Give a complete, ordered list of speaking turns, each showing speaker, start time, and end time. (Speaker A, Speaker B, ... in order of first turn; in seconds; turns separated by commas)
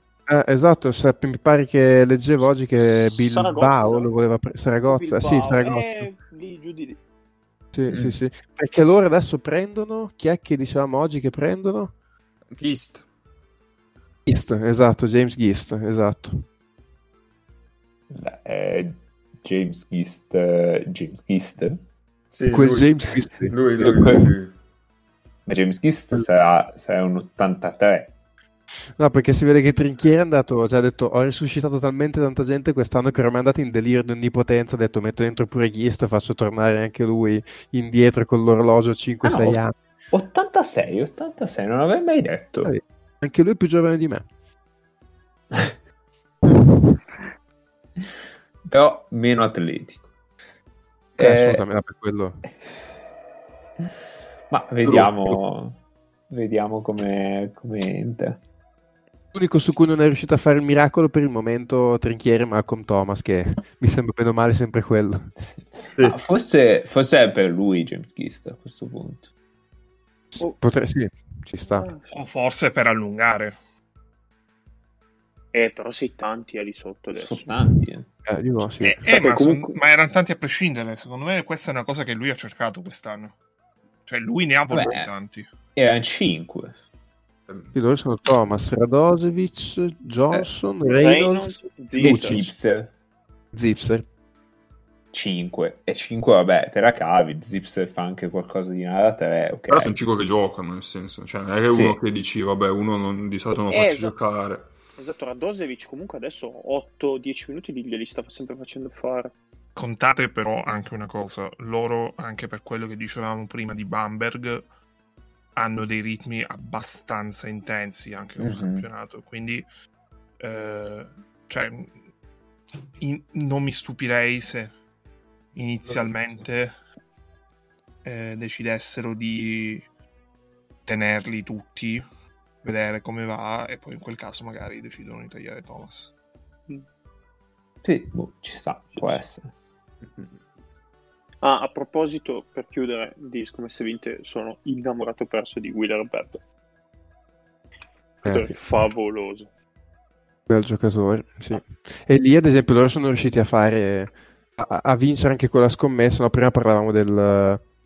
Speaker A: 0.3-6.1, Speaker B: 3.1-4.1, Speaker B: 4.8-7.0, Speaker A: 7.7-11.9, Speaker C: 7.9-8.2, Speaker D: 12.5-13.0, Speaker A: 14.3-16.4, Speaker C: 18.1-21.8, Speaker D: 22.3-24.5, Speaker A: 22.5-23.5, Speaker C: 23.8-24.3, Speaker C: 25.5-28.1, Speaker A: 29.0-39.7, Speaker C: 39.2-42.7, Speaker A: 42.6-44.3, Speaker C: 48.7-50.1, Speaker C: 51.2-51.6, Speaker A: 51.2-52.4, Speaker C: 54.5-58.4, Speaker D: 54.9-55.4, Speaker A: 59.3-65.3, Speaker C: 65.4-69.3, Speaker A: 70.3-71.9, Speaker B: 71.6-72.1, Speaker E: 72.1-73.6, Speaker B: 75.5-77.5, Speaker C: 77.2-78.1, Speaker A: 78.3-79.0, Speaker E: 78.8-83.3, Speaker B: 79.0-79.8, Speaker E: 84.1-85.5, Speaker C: 84.7-85.1, Speaker C: 85.8-86.8, Speaker A: 87.7-92.5, Speaker B: 91.0-92.4, Speaker C: 92.0-92.9, Speaker A: 93.5-94.1, Speaker C: 95.1-100.0, Speaker D: 99.7-104.7, Speaker C: 101.7-102.0, Speaker B: 103.7-104.2, Speaker B: 105.0-109.3, Speaker E: 109.8-114.7, Speaker E: 115.6-119.7, Speaker C: 118.4-118.9, Speaker E: 120.4-121.9, Speaker E: 123.0-124.7, Speaker E: 125.6-126.8, Speaker E: 128.1-129.8, Speaker E: 130.9-132.1, Speaker E: 132.6-136.1, Speaker C: 137.8-139.5, Speaker B: 141.4-146.4, Speaker B: 148.2-149.5, Speaker A: 148.3-148.6, Speaker A: 150.5-157.7